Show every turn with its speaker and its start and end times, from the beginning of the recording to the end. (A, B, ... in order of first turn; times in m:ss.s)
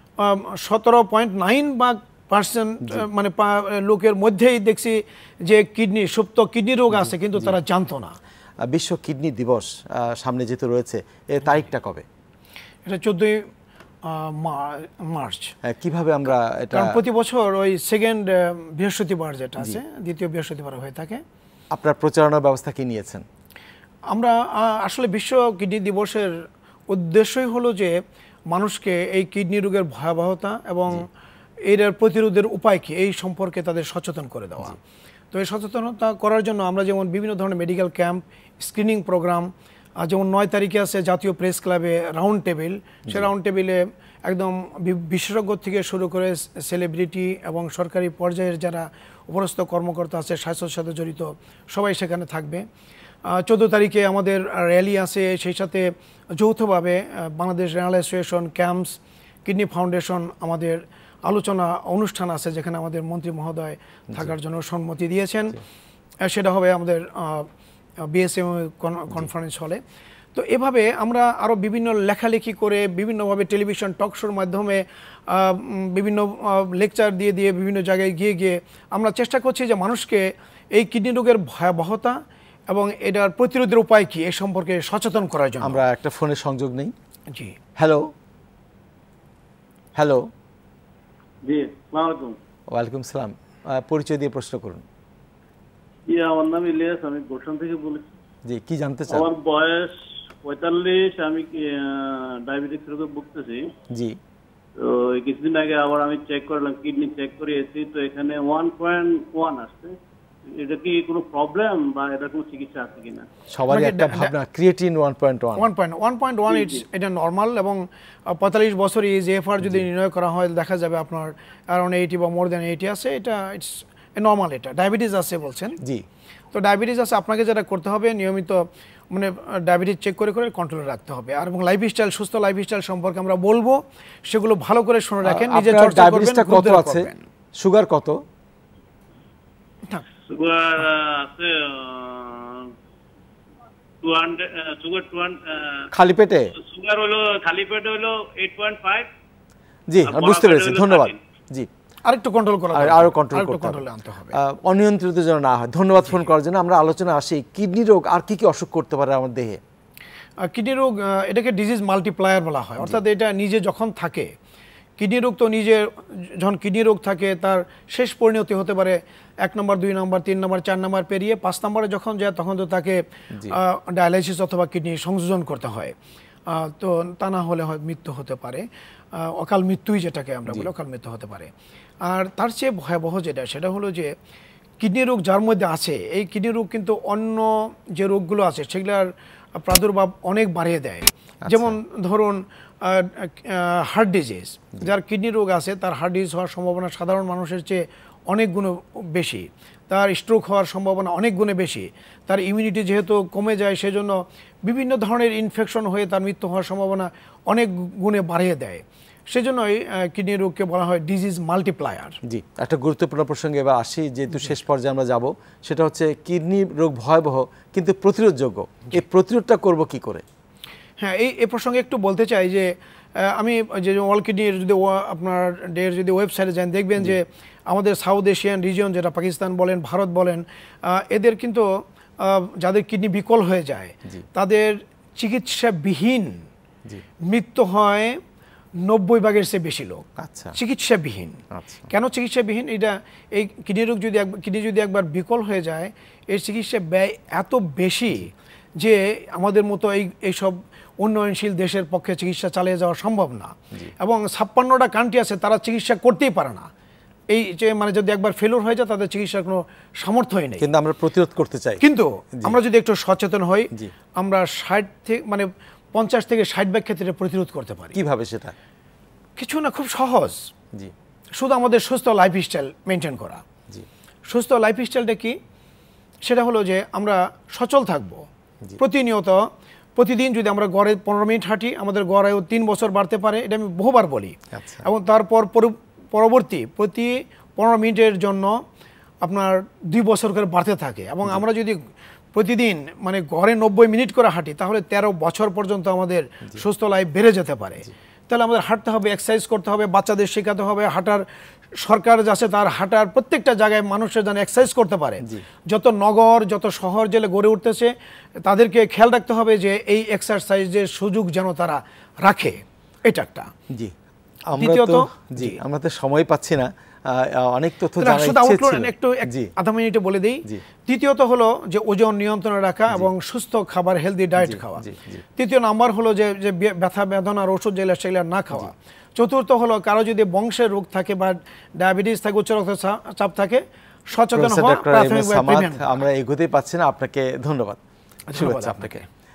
0:00.2-0:08.2 A
0:06.9-0:07.5 B
0:08.6-0:12.0 B
0:12.9-0:13.5 A
0:14.0-0:15.5 A
0:15.6-0:17.0 B
0:16.7-0:21.2 A
0:21.7-0:23.2 B
0:24.1-0:26.3 A
0:26.9-0:27.9 A
0:28.5-0:31.0 A
0:31.7-0:34.8 A
0:35.3-0:39.5 A
0:40.0-0:52.6 A
0:53.3-1:05.6 A
1:06.2-1:07.5 A
1:08.0-1:09.8 A
1:10.3-1:25.8 A
1:25.6-1:26.9 B
1:27.3-1:27.6 A
1:27.8-1:28.1 B
1:30.0-1:30.3 B
1:31.4-1:32.4 C
1:32.7-1:34.8 B
1:36.1-1:38.1 C
1:38.5-1:39.3 B
1:39.1-1:43.6 C
1:43.9-1:44.2 B
1:44.8-1:50.0 C
1:50.5-1:53.3 C
1:53.5-1:55.6 B
1:53.7-1:54.3 A
1:55.6-2:05.8 A
2:05.8-2:06.0 B
2:06.5-2:17.2 A
2:15.2-2:18.2 B
2:20.3-2:22.7 C
2:24.0-2:25.9 C
2:25.9-2:26.5 B
2:26.6-2:29.1 C
2:29.9-2:31.7 B
2:30.0-2:31.2 C
2:32.0-2:34.4 A
2:32.7-2:33.8 B
2:34.3-2:39.6 B
2:40.4-2:44.3 A
2:45.0-2:55.9 A
2:53.3-2:53.6 B
2:56.5-2:58.6 A
2:59.2-3:01.5 A
3:02.0-3:04.1 A
3:04.8-3:32.2 A
3:11.4-3:11.8 B
3:32.2-3:40.2 B
3:41.0-3:51.7 A
3:52.2-3:56.4 A
3:57.2-3:58.2 A
3:58.8-4:16.7 A
4:00.2-4:00.6 B
4:01.5-4:01.9 B
4:17.3-4:20.7 A
4:20.6-4:21.8 B
4:21.8-4:28.0 A
4:27.9-4:28.5 B
4:29.4-4:30.4 A
4:31.4-4:33.4 A
4:34.3-4:35.4 A
4:36.2-4:38.2 A
4:38.8-4:39.4 A
4:40.0-4:48.6 A
4:44.5-4:44.8 B
4:49.2-4:51.8 A
4:52.3-5:01.2 A
5:01.8-5:07.9 A
5:08.4-5:13.5 A
5:14.5-5:19.5 B
5:14.6-5:15.6 A
5:18.0-5:24.8 A
5:24.4-5:25.2 B
5:25.4-5:36.0 A
5:34.3-5:37.8 B
5:38.3-5:39.0 A
5:38.3-5:39.0 B